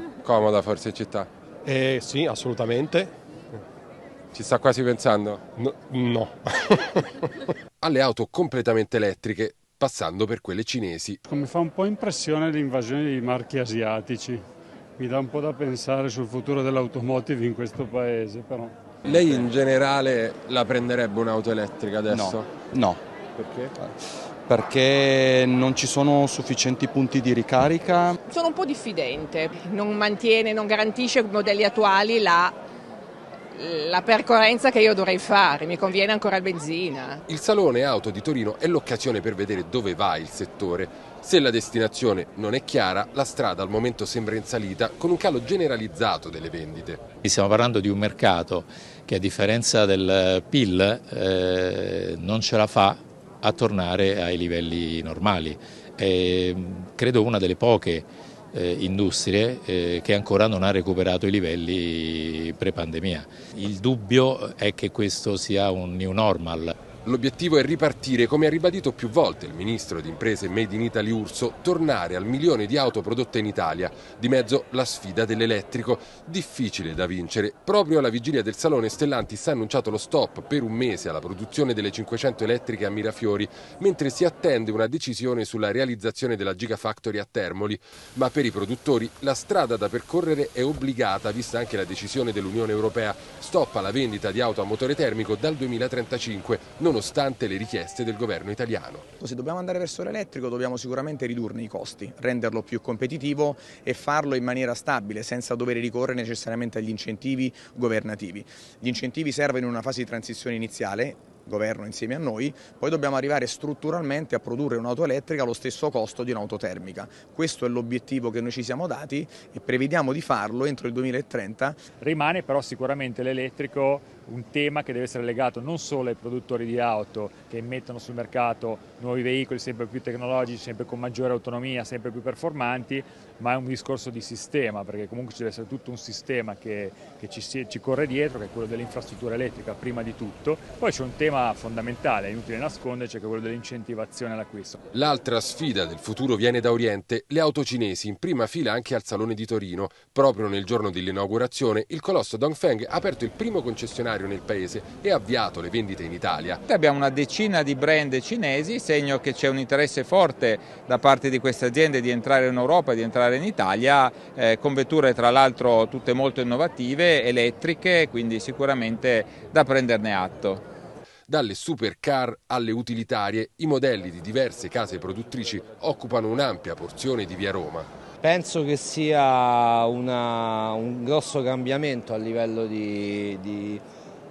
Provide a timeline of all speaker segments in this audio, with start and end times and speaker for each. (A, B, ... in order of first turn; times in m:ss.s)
0:00.2-0:01.3 A
0:01.6-0:03.1 B
0:04.3-0:05.4 A
0:05.6-0:07.3 B
0:07.8-0:11.2 A
0:11.2-0:14.4 C
0:15.0-0:18.7 C
0:19.0-0:22.5 A
0:22.1-0:23.0 D
0:23.4-0:23.7 A
0:24.5-0:28.2 D
0:28.3-0:32.6 E
0:33.5-0:37.2 E
0:37.3-0:47.0 A
0:47.2-1:06.7 F
1:07.0-1:39.0 A
1:39.2-2:01.8 G
2:02.0-2:24.8 H
2:24.9-2:36.6 A
2:36.7-2:50.6 I
2:51.3-2:57.9 A
2:58.2-3:03.8 J